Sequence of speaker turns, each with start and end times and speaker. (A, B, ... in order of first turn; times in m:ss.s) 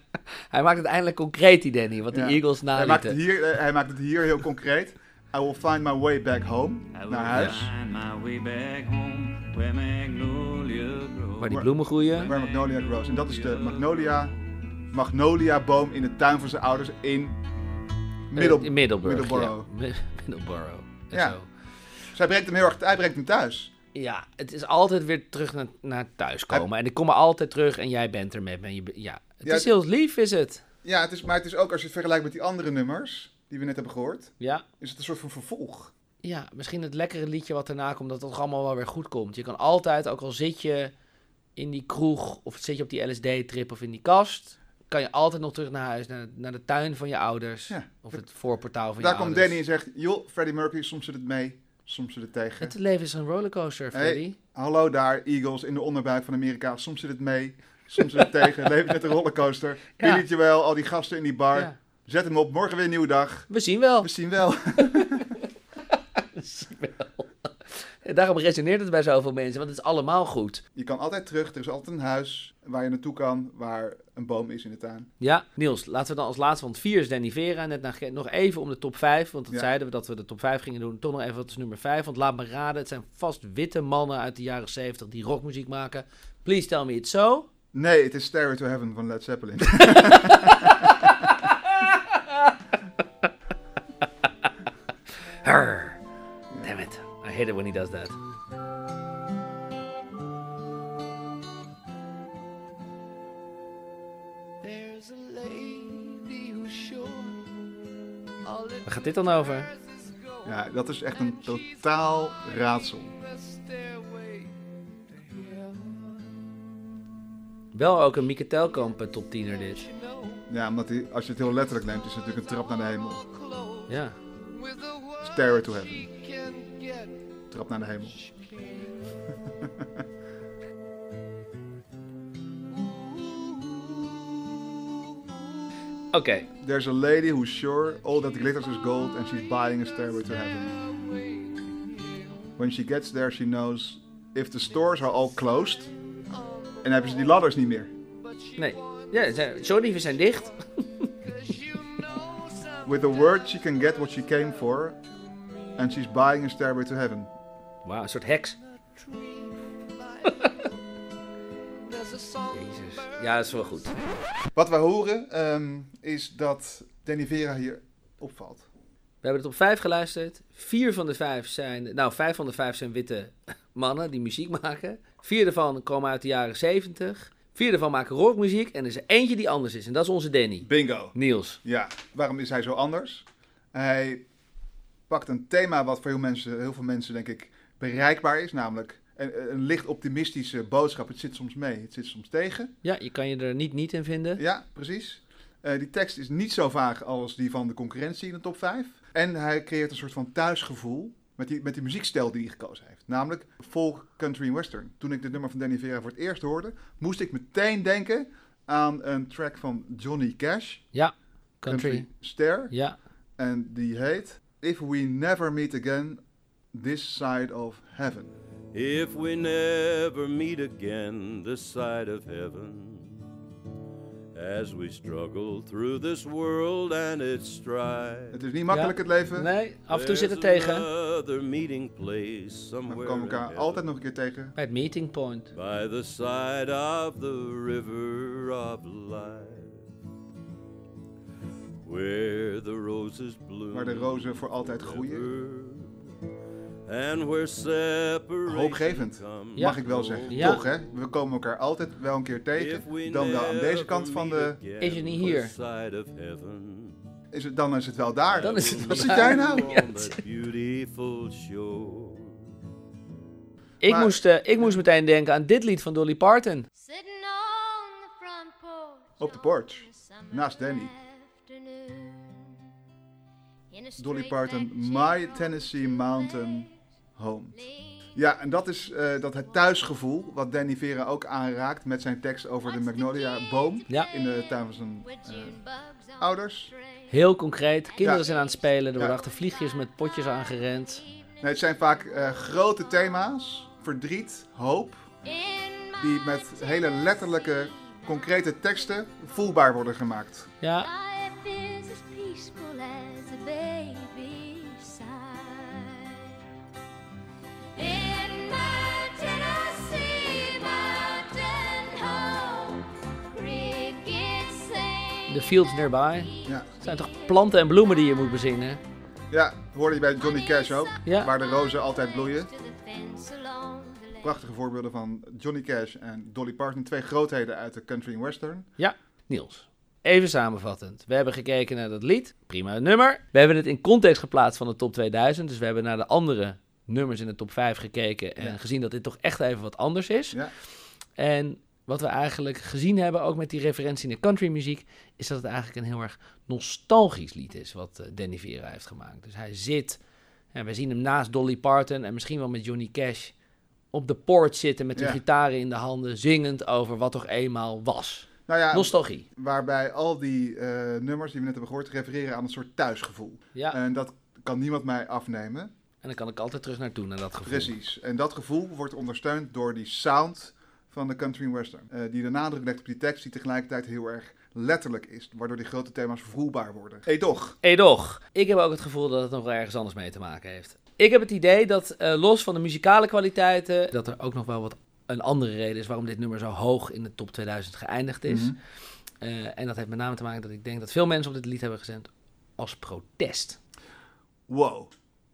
0:00.5-0:03.2 A
0:02.1-0:07.7 B
0:06.9-0:14.7 C
0:11.4-0:12.3 A
0:11.5-0:14.3 B
0:14.9-0:17.4 B
0:18.3-0:19.7 B
0:18.3-0:21.4 A
0:21.1-0:21.4 B
0:22.1-0:23.7 B
0:23.9-0:30.6 A
0:29.4-0:29.7 B
0:30.8-0:35.9 B
0:34.4-0:34.6 A
0:36.2-0:40.9 A
0:41.6-0:49.6 A
0:47.7-0:48.2 B
0:49.0-0:52.7 B
0:52.6-0:54.4 A
0:53.9-1:05.3 B
1:00.0-1:00.2 A
1:03.5-1:04.1 A
1:04.8-1:05.3 A
1:06.2-1:10.6 A
1:10.7-1:15.1 B
1:15.2-1:27.5 A
1:27.7-1:31.3 B
1:29.9-1:32.6 A
1:34.2-1:34.5 A
1:35.4-1:36.0 A
1:36.6-1:38.2 A
1:44.6-1:47.6 D
1:48.4-1:56.5 D
1:48.8-1:49.7 A
1:50.4-1:53.1 B
1:57.7-1:59.8 A
1:58.7-2:00.5 D
2:00.5-2:03.2 B
2:02.2-2:07.3 D
2:03.9-2:04.2 A
2:05.2-2:06.1 B
2:07.5-2:08.2 B
2:08.0-2:09.3 D
2:12.7-2:15.1 D
2:16.1-2:16.5 A
2:16.6-2:20.8 B
2:19.6-2:22.5 D
2:22.6-2:25.9 B
2:26.3-2:27.4 D
2:26.8-2:27.9 B
2:28.0-2:36.0 D
2:28.6-2:31.1 A
2:32.8-2:35.0 B
2:35.8-2:37.3 B
2:37.8-2:38.6 A
2:38.8-2:40.8 D
2:41.7-2:44.1 D
2:42.5-2:43.9 A
2:44.5-2:48.6 B
2:49.2-3:01.6 A
3:00.6-3:04.2 B
3:05.1-3:12.7 B
3:12.8-3:14.4 A
3:14.4-3:30.9 B
3:30.9-3:32.1 A
3:31.6-3:32.7 B
3:32.7-3:33.0 A
3:33.4-3:36.2 B
3:36.7-3:38.3 B
3:38.7-3:43.2 E
3:44.3-3:48.4 E
3:48.3-3:49.5 B
3:48.7-3:50.9 A
3:49.9-3:53.9 E
3:52.9-3:54.6 B
3:54.6-3:55.5 A
3:55.5-3:59.9 E
4:01.8-4:06.0 E
4:03.7-4:05.3 B
4:06.9-4:10.8 E
4:08.4-4:14.6 B
4:09.5-4:10.6 A
4:12.5-4:17.0 E
4:14.8-4:15.5 A
4:17.3-4:19.7 B
4:18.2-4:22.4 E
4:18.4-4:20.2 A
4:23.8-4:26.7 A
4:23.8-4:24.8 B
4:26.7-4:32.6 F
4:29.2-4:30.9 B
4:33.7-4:36.7 F
4:34.0-4:37.6 B
4:37.5-4:38.1 F
4:38.1-4:45.6 B
4:39.3-4:39.8 F
4:42.6-4:53.6 F
4:46.2-4:46.7 B
4:47.1-4:51.0 A
4:48.0-4:48.2 B
4:51.4-4:55.0 B
4:55.2-4:59.7 F
4:56.0-5:00.5 B
5:00.6-5:00.9 A
5:00.8-5:06.4 F
5:07.8-5:18.5 F
5:15.3-5:16.3 A
5:16.4-5:16.7 B
5:16.8-5:18.8 A
5:19.3-5:22.5 B
5:20.2-5:24.5 F
5:21.0-5:21.3 A
5:24.2-5:28.7 B
5:28.8-5:40.4 A
5:41.2-5:50.0 A
5:50.5-5:53.3 A
5:53.9-5:59.2 A
5:58.5-6:05.7 B
6:06.0-6:07.7 A
6:07.4-6:17.6 B
6:17.6-6:28.6 A
6:28.3-6:28.6 B
6:29.2-6:33.6 A
6:34.5-6:34.9 B